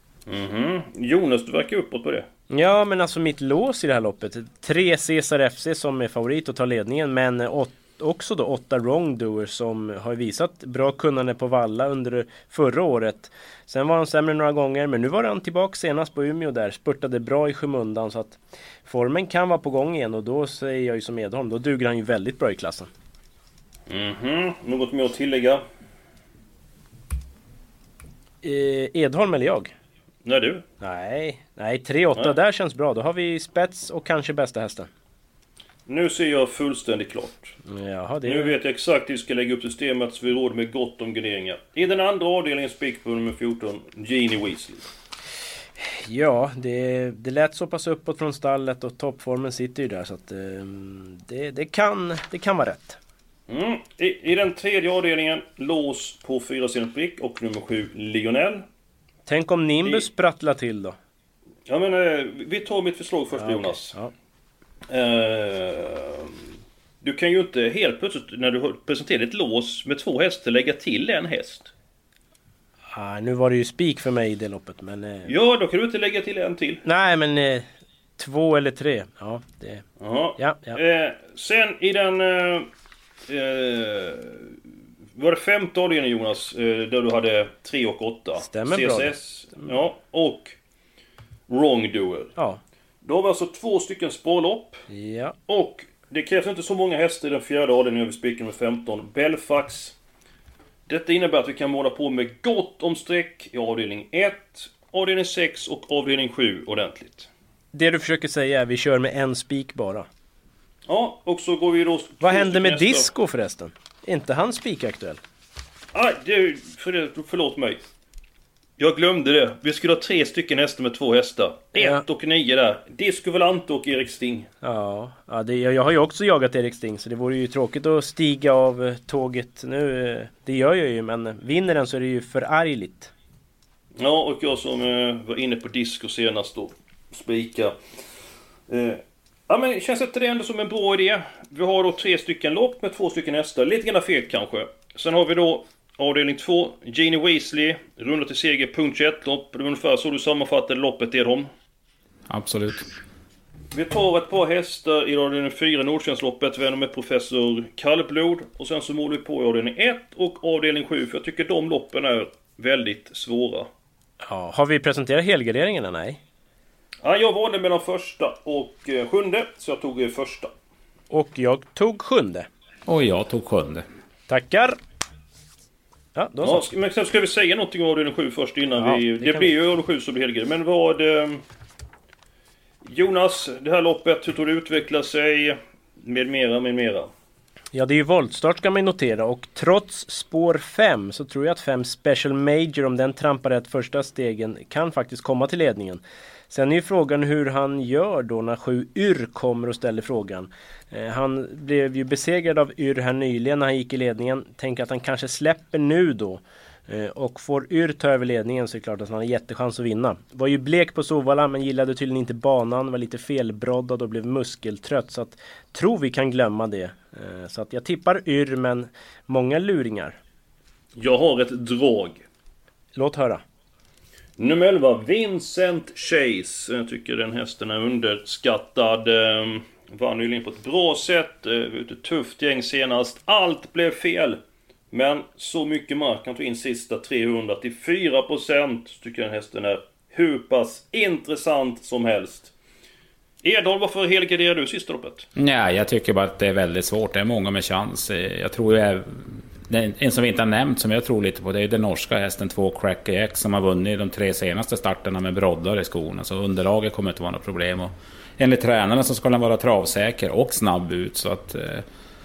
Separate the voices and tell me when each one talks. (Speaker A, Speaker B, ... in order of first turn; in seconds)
Speaker A: 0.3-2.3, 23.9-25.6, 30.2-30.6, 35.9-37.5, 38.2-44.9, 53.5-58.6, 61.7-64.0, 64.9-66.5, 67.0-71.7, 75.3-76.8, 80.0-82.7, 83.3-84.6, 85.2-90.5, 91.5-92.3, 93.0-94.8, 95.5-100.0, 100.9-107.3, 110.9-113.1, 115.9-117.8, 118.8-124.5, 134.0-137.7, 138.7-151.5, 153.7-163.7, 167.0-170.5, 176.4-181.4, 182.8-187.1, 221.0-222.2, 224.4-234.4, 234.9-242.5, 243.4-245.3
Speaker B: 2.5-22.9, 28.4-29.7, 30.8-34.9, 37.7-38.6, 45.9-53.0, 59.3-61.0, 63.4-64.1, 72.9-75.3, 76.8-77.7, 78.2-79.8, 80.4-80.8, 88.4-89.7, 94.9-95.3, 107.7-110.1, 112.2-115.2, 121.8-122.1, 124.6-133.1, 164.3-166.2, 171.1-172.5, 174.3-174.8, 176.2-176.7, 178.8-179.5, 187.7-220.2, 223.0-223.4
Speaker C: 152.3-152.9, 172.9-173.8, 245.4-261.8